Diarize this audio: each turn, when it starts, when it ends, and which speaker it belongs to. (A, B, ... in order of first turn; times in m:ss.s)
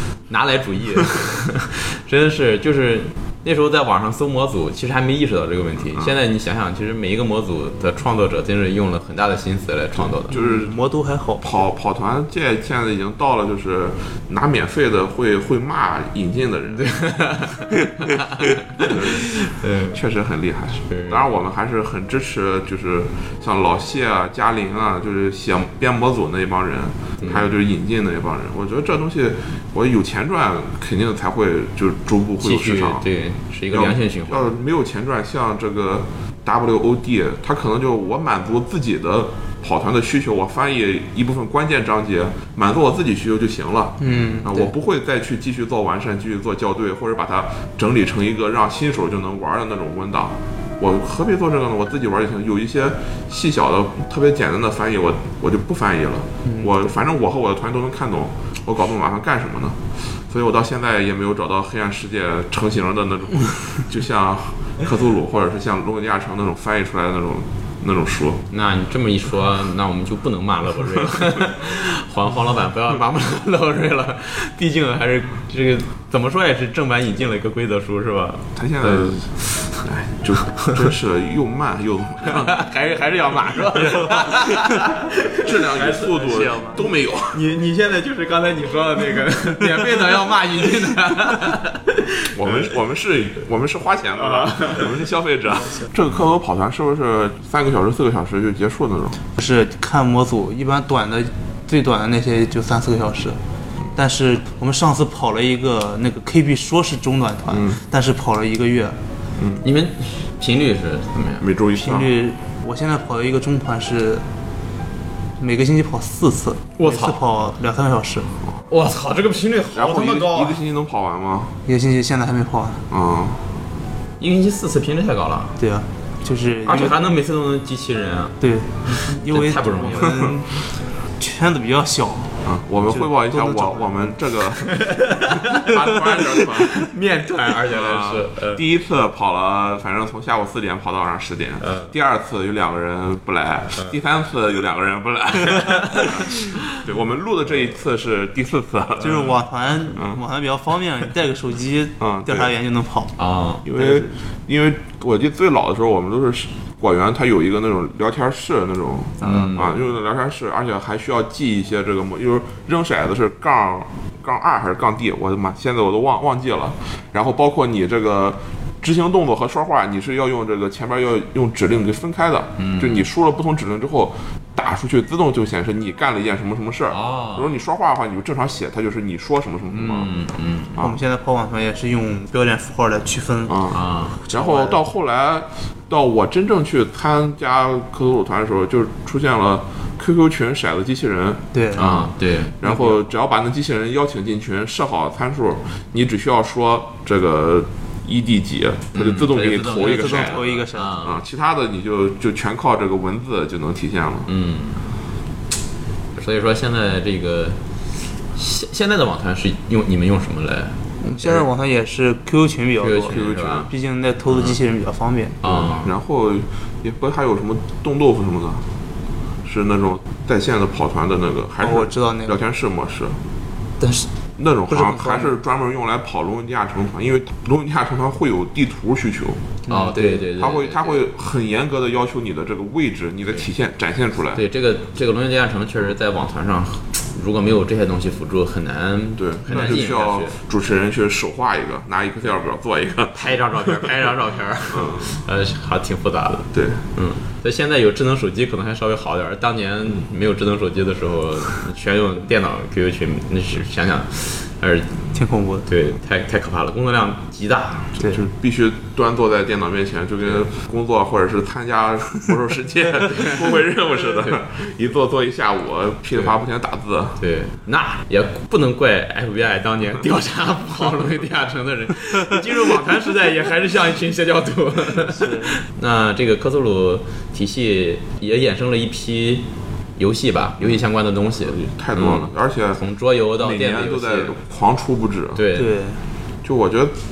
0:00.3-0:10.4 A
0:10.3-0:10.7 B
0:10.3-0:11.6 C
0:11.4-0:16.9 B
0:16.7-0:20.0 A
0:18.8-0:19.4 B
0:19.9-0:33.0 B
0:20.9-0:21.2 A
0:27.2-0:27.5 A
0:32.4-0:34.5 A
0:33.7-1:08.4 B
0:44.0-0:44.7 C
0:56.5-0:56.8 C
1:08.5-1:19.8 A
1:18.6-1:22.6 B
1:22.2-1:25.6 A
1:24.0-1:24.7 C
1:25.4-1:27.4 B
1:25.7-1:26.8 C
1:27.3-1:32.5 A
1:32.4-1:39.2 B
1:34.2-1:34.9 A
1:39.4-1:43.4 C
1:44.0-1:49.0 C
1:47.5-1:47.8 B
1:49.4-1:49.6 B
1:49.6-1:51.5 A
1:51.4-1:52.1 B
1:51.8-1:54.2 C
1:55.4-1:58.3 C
1:56.8-1:57.2 A
1:58.7-2:00.6 A
1:59.7-2:01.5 B
2:01.7-2:02.9 C
2:02.9-2:03.4 B
2:04.2-2:05.6 A
2:05.6-2:07.0 C
2:06.6-2:08.4 A
2:08.4-2:10.5 C
2:08.9-2:10.3 A
2:11.2-2:14.1 C
2:12.4-2:16.9 B
2:14.6-2:18.6 A
2:17.7-2:29.3 B
2:21.6-2:21.9 A
2:25.6-2:26.5 A
2:29.0-2:33.1 C
2:30.0-2:30.2 B
2:32.0-2:32.5 B
2:33.2-2:33.6 A
2:33.6-3:00.1 B
2:33.8-2:34.1 C
2:39.2-2:39.8 A
2:52.6-2:53.0 A
2:56.9-2:57.5 A
2:59.7-3:00.8 A
3:00.8-3:01.0 B
3:00.8-3:04.8 C
3:03.5-3:03.8 B
3:03.7-3:04.2 A
3:04.3-3:12.1 B
3:11.5-3:12.0 C
3:11.8-3:12.6 A
3:12.6-3:20.4 B
3:12.6-3:13.0 C
3:18.9-3:21.2 A
3:19.7-3:21.0 C
3:21.0-3:24.3 B
3:24.3-3:24.8 A
3:26.2-3:27.6 A
3:28.4-3:31.4 A
3:31.0-3:35.6 C
3:32.8-3:33.7 A
3:33.1-3:33.7 B
3:34.3-3:34.6 A
3:35.4-3:35.9 A
3:35.8-3:38.6 B
3:39.4-3:43.2 B
3:41.6-3:42.4 C
3:43.8-3:44.1 C
3:44.4-3:49.4 B
3:44.7-3:45.4 C
3:49.7-3:51.0 A
3:49.7-3:50.2 C
3:50.4-3:54.4 B
3:54.4-4:00.4 A
3:59.2-4:03.9 B
4:03.2-4:15.1 A
4:04.7-4:05.2 B
4:06.5-4:06.8 B
4:15.1-4:15.7 C
4:15.7-4:17.9 A
4:18.0-4:27.2 B
4:23.1-4:23.4 A
4:27.2-4:44.3 A
4:35.1-4:35.6 C
4:41.5-4:42.8 B
4:43.4-4:45.4 B
4:45.4-4:45.7 A
4:45.6-4:46.0 C
4:46.4-4:47.0 B